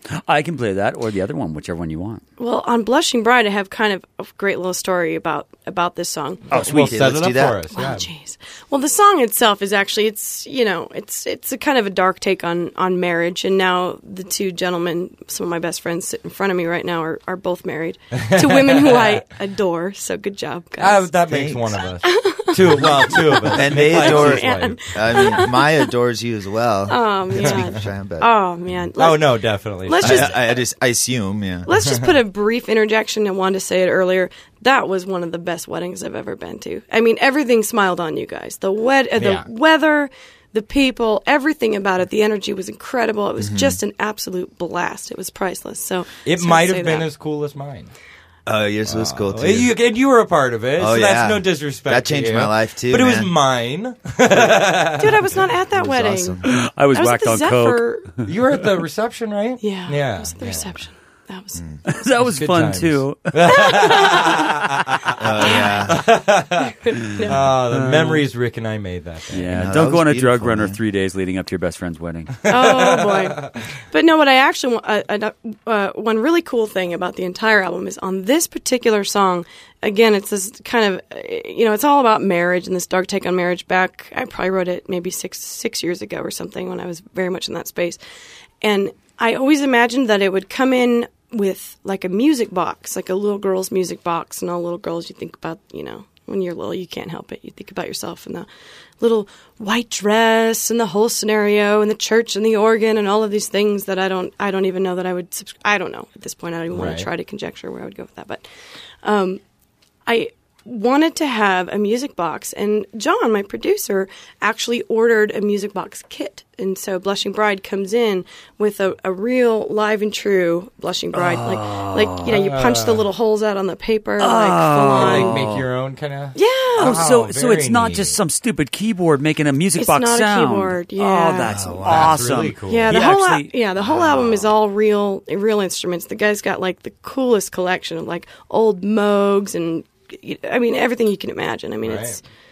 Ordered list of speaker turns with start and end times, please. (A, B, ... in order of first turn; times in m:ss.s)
0:00.2-0:02.2 A
0:02.4-0:06.4 B
0:06.5-0:06.8 A
0:06.5-0:07.6 C
0:06.5-0:08.1 D
0:07.7-0:21.1 B
0:18.2-0:19.2 D
0:20.8-0:24.8 D
0:21.3-0:21.8 C
0:22.0-0:25.9 B
0:23.5-0:28.3 C
0:26.9-0:30.5 B
0:29.0-0:30.3 D
0:30.0-0:31.7 C
0:31.6-0:47.1 B
0:39.2-0:39.4 D
0:43.4-0:43.8 C
0:46.2-0:47.9 D
0:48.4-0:49.7 C
0:48.8-0:55.2 D
0:50.8-0:53.3 C
0:55.0-0:56.4 B
0:55.7-0:56.6 C
0:56.4-0:58.3 A
0:56.9-0:58.1 B
0:58.2-1:00.8 D
0:59.6-1:01.6 B
1:01.5-1:01.8 C
1:01.9-1:03.7 A
1:02.2-1:06.7 D
1:03.5-1:04.4 B
1:05.2-1:06.1 C
1:05.5-1:05.7 B
1:06.8-1:07.4 B
1:07.2-1:08.2 A
1:07.3-1:09.8 D
1:09.3-1:12.4 A
1:09.5-1:10.8 C
1:12.5-1:28.0 B
1:12.5-1:13.5 D
1:28.6-1:38.5 B
1:39.0-1:48.4 B
1:46.7-1:47.1 D
1:49.0-1:49.4 B
1:50.0-2:05.4 B
2:01.1-2:02.3 A
2:02.2-2:03.0 D
2:04.2-2:05.6 A
2:04.9-2:08.2 D
2:06.3-2:07.0 B
2:06.8-2:13.5 A
2:09.8-2:11.6 B
2:11.4-2:12.3 C
2:11.8-2:13.0 D
2:12.7-2:22.2 B
2:13.9-2:14.3 C
2:21.8-2:22.2 D